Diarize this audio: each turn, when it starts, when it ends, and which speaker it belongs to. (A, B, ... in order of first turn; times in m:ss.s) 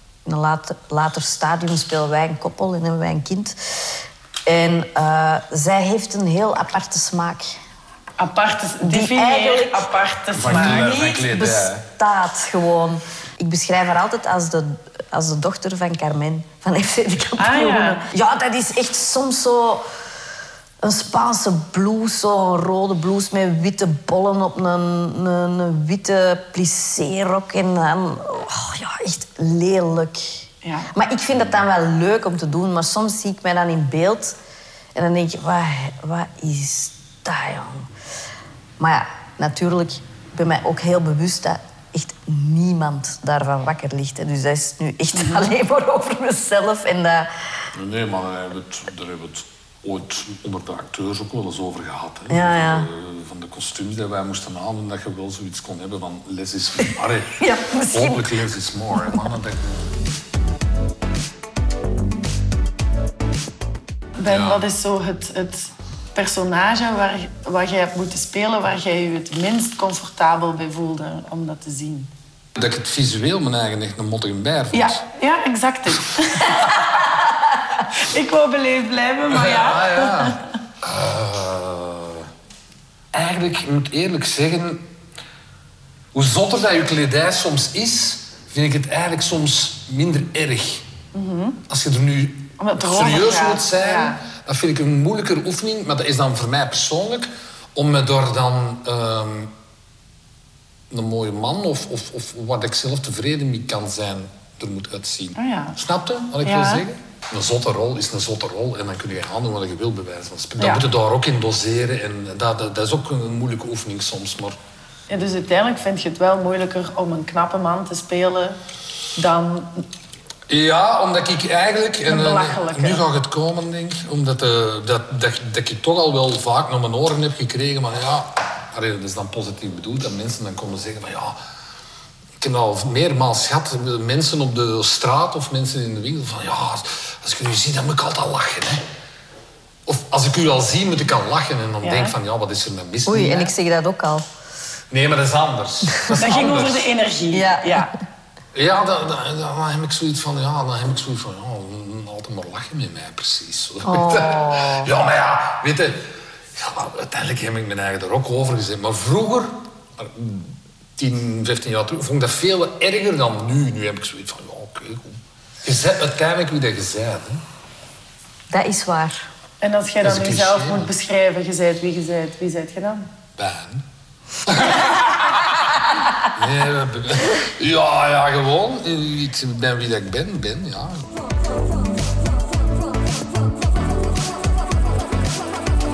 0:00.2-0:07.6 A
0:08.2-0:11.0 B
0:08.8-0:09.9 A
0:10.3-0:11.8 C
0:10.5-0:19.8 A
0:17.4-0:18.1 B
0:20.8-0:34.4 A
0:30.6-0:30.9 B
0:34.9-0:37.9 A
0:38.8-0:47.3 A
0:45.1-0:45.5 B
0:47.7-0:59.9 C
0:52.3-0:52.9 A
0:57.4-0:58.4 A
0:58.9-0:59.3 A
1:04.2-1:12.1 B
1:04.2-1:04.6 C
1:12.5-1:15.0 C
1:14.7-1:16.8 B
1:17.9-1:20.4 B
1:19.3-1:22.3 C
1:23.1-1:24.9 C
1:26.1-1:30.8 C
1:31.1-1:31.6 B
1:31.7-1:39.5 C
1:32.6-1:34.2 B
1:40.9-1:54.6 C
1:45.3-1:45.8 B
1:46.4-1:46.8 B
1:50.6-1:50.8 B
1:55.1-1:58.6 B
1:59.2-1:59.8 B
2:00.5-2:11.4 C
2:02.1-2:03.0 B
2:12.4-2:18.8 C
2:19.8-2:23.5 C
2:21.8-2:22.1 B
2:23.0-2:24.2 A
2:24.9-2:26.9 C
2:25.9-2:26.3 A
2:26.1-2:27.9 B
2:27.3-2:27.9 A
2:28.5-2:47.4 C
2:33.8-2:34.9 A
2:48.5-2:49.2 A
2:49.6-2:53.1 B
2:50.0-2:50.9 C
2:53.3-2:53.8 C
2:54.4-2:55.7 C
2:56.3-3:01.1 C